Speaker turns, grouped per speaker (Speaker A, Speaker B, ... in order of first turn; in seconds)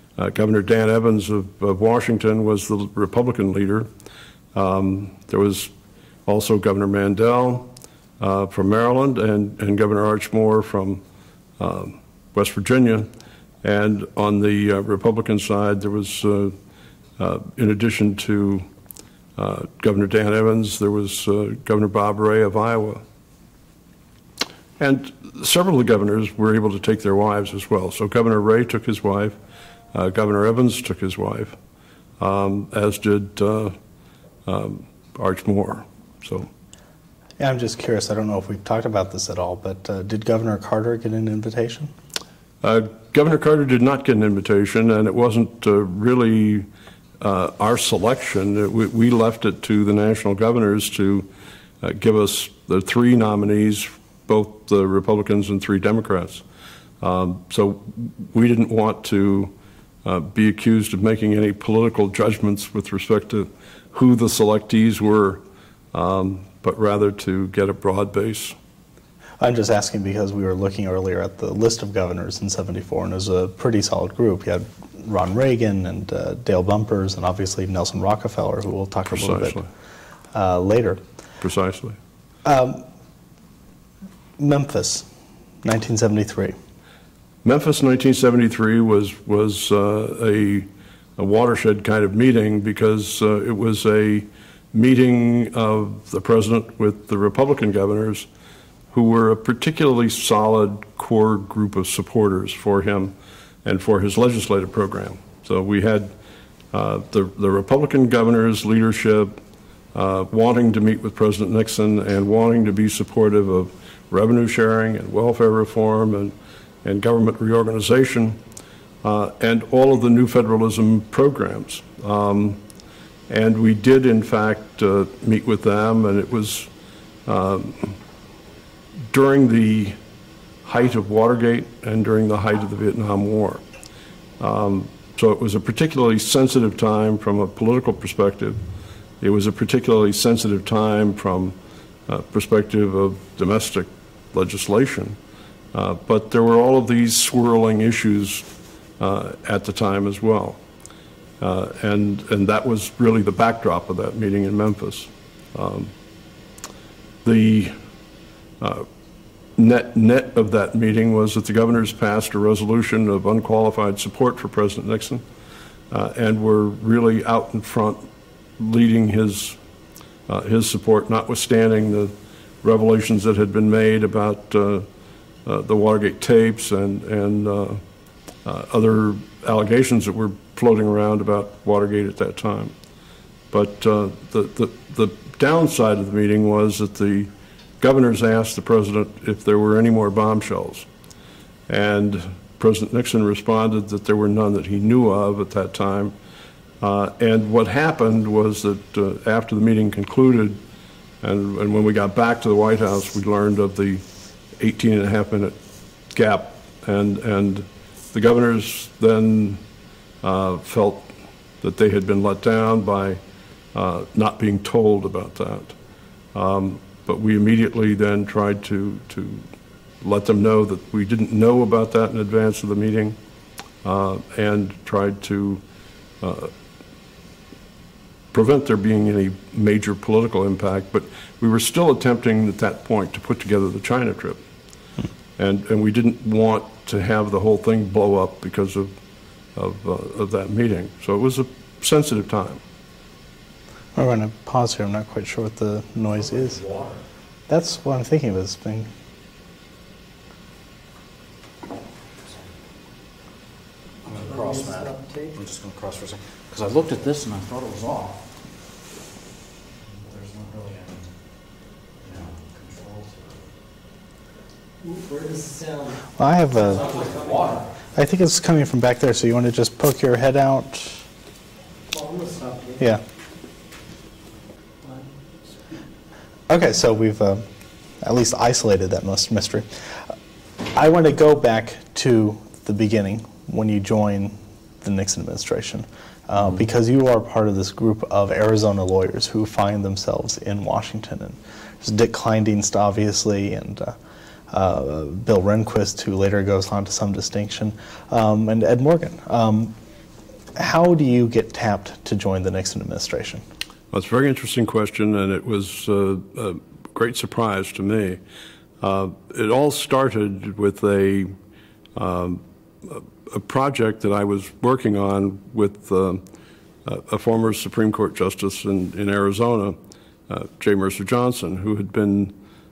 Speaker A: 0.2-3.9, 4.5-5.7, 6.2-11.0, 11.6-13.1, 13.6-16.5, 17.2-18.7, 19.4-23.0, 24.8-29.4, 29.9-31.6, 32.2-33.8, 34.5-36.5, 42.6-46.7, 47.2-51.3, 51.8-56.4, 57.0-59.5, 60.0-65.4, 65.9-68.5, 79.1-79.7, 81.4-82.0, 87.4-98.3, 98.9-106.1, 106.7-109.3, 109.9-116.3, 116.8-118.4, 119.0-122.6, 123.3-126.7, 127.2-128.0, 129.1-130.0, 130.7-133.6, 134.4-138.6, 139.2-141.6, 142.1-145.2, 145.7-148.5, 149.0-150.6, 151.4-155.9, 157.2-157.8, 158.6-158.9, 159.6-165.2, 165.9-169.6, 170.3-174.9, 175.4-177.8, 178.4-182.7, 183.5-190.9, 191.7-196.1, 196.8-200.6, 201.2-204.0, 204.6-205.6, 206.1-209.6, 210.2-213.2, 213.7-215.7, 216.3-219.4, 220.0-223.2, 223.8-225.6, 226.2-226.5, 228.3-234.4, 235.4-238.9, 239.6-242.6, 303.9-308.2, 308.8-311.3, 311.9-316.2, 316.9-322.3
Speaker B: 37.4-41.9, 69.4-79.6, 80.3-81.0, 82.4-82.8, 84.4-85.1, 85.6-86.5, 244.0-246.6, 247.5-248.9, 266.2-266.9, 267.9-271.1, 276.5-277.4, 278.0-280.1, 280.7-294.0, 294.5-299.7, 300.5-303.4
Speaker C: 254.1-255.3, 264.8-266.1, 266.7-267.6, 271.9-272.8, 274.8-275.8
Speaker D: 254.1-254.8, 255.3-258.3, 259.8-261.1, 262.0-263.5, 266.8-267.7